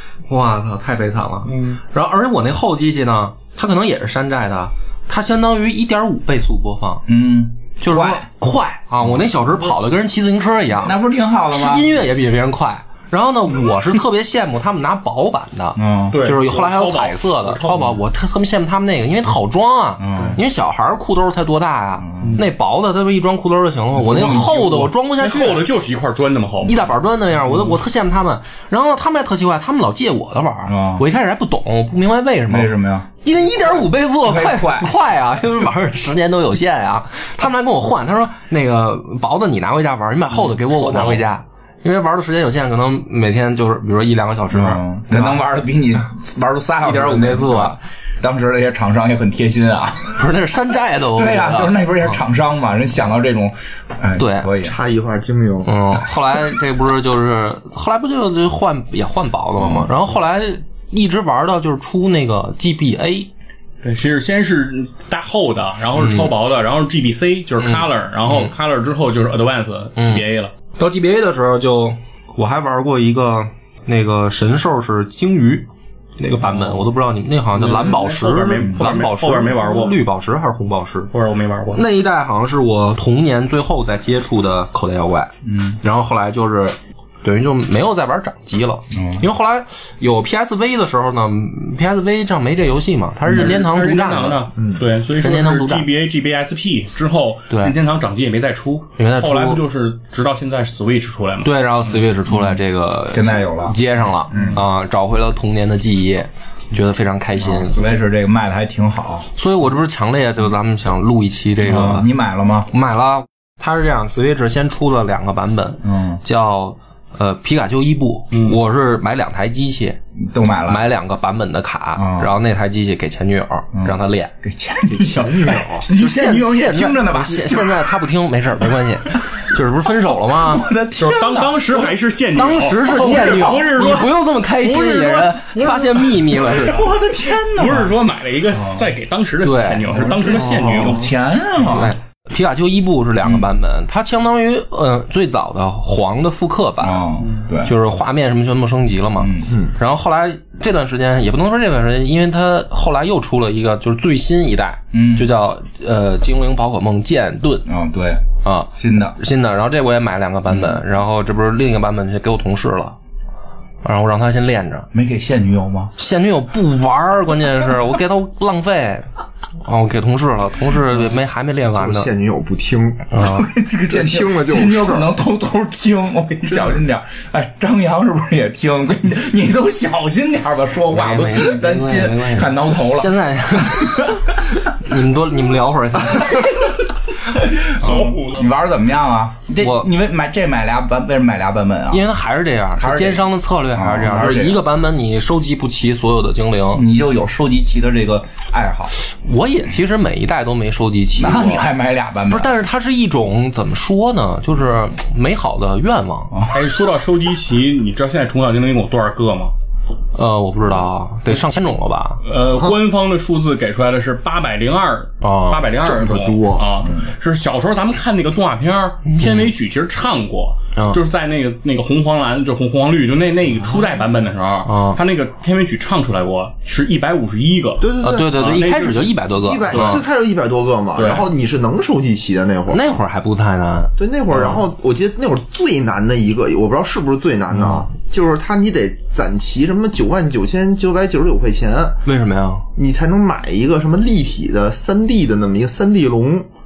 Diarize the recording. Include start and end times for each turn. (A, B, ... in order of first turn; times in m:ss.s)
0:00.3-0:07.0 A
0:01.5-0:01.8 B
0:07.1-0:08.3 C
0:07.8-0:11.0 A
0:10.8-0:11.9 C
0:11.5-0:25.7 A
0:15.8-0:16.2 C
0:16.1-0:17.9 B
0:20.0-0:20.4 C
0:22.0-0:22.4 C
0:24.0-0:24.9 C
0:25.2-0:26.9 B
0:26.7-0:45.4 A
0:27.4-0:27.8 C
0:30.7-0:31.1 C
0:32.5-0:33.1 C
0:34.2-0:34.9 C
0:44.5-0:50.2 C
0:46.8-0:47.8 A
0:50.2-0:52.2 A
0:51.2-0:54.8 C
0:54.2-0:54.5 A
0:54.6-0:55.7 D
0:55.6-1:03.3 A
0:59.6-0:59.9 C
1:03.8-1:10.5 B
1:06.0-1:06.3 A
1:07.6-1:08.5 A
1:10.0-1:10.2 A
1:10.8-1:15.7 A
1:16.2-1:21.1 A
1:17.5-1:20.0 B
1:21.1-1:21.8 B
1:21.7-1:34.5 A
1:25.4-1:25.8 C
1:28.9-1:29.2 C
1:33.3-1:41.5 B
1:35.2-1:35.9 A
1:37.5-1:37.8 A
1:39.0-1:39.6 A
1:41.4-1:47.8 A
1:42.3-1:42.6 C
1:43.1-1:43.8 C
1:44.3-1:44.6 C
1:44.3-1:44.6 B
1:47.4-1:49.3 C
1:49.4-1:52.1 A
1:51.6-1:52.7 C
1:52.7-2:00.0 A
1:55.8-1:56.2 C
1:58.3-1:58.6 B
2:00.2-2:00.9 C
2:00.7-2:04.3 A
2:02.0-2:02.3 C
2:03.7-2:07.9 C
2:05.4-2:10.7 A
2:10.3-2:11.9 C
2:11.0-2:16.4 B
2:12.3-2:16.9 A
2:12.8-2:13.9 C
2:16.4-2:17.9 C
2:17.5-2:21.1 B
2:18.6-2:18.9 C
2:19.4-2:20.1 A
2:20.0-2:21.9 C
2:21.6-2:27.1 A
2:26.8-2:27.7 C
2:27.6-2:37.7 A
2:29.2-2:29.5 C
2:34.9-2:35.3 C
2:37.7-2:39.2 C
2:38.4-2:43.0 A
2:40.5-2:40.8 C
2:43.8-2:44.9 A
2:44.9-2:45.9 C
2:46.0-2:49.1 A
2:49.6-2:52.1 A
2:51.7-2:53.2 D
2:53.1-2:53.5 A
2:53.2-3:04.1 C
2:53.9-2:55.1 D
3:00.9-3:06.6 A
3:07.3-3:12.1 C
3:07.8-3:08.5 B
3:09.6-3:09.9 A
3:11.9-3:16.8 A
3:12.8-3:14.6 C
3:16.7-3:18.9 C
3:19.0-3:21.7 A
3:21.2-3:22.5 C
3:22.3-3:26.3 A
3:26.3-3:26.6 C
3:26.5-3:29.5 B
3:30.1-3:32.2 A
3:32.2-3:49.1 B
3:35.2-3:35.7 A
3:35.8-3:36.8 D
3:39.1-3:39.5 A
3:44.6-3:45.0 A
3:47.8-3:52.9 D
3:48.0-3:50.0 A
3:49.7-3:50.0 B
3:51.0-3:51.3 B
3:52.7-3:53.9 A
3:54.0-4:02.0 D
3:54.3-3:54.6 B
4:02.0-4:02.6 A
4:02.8-4:06.5 D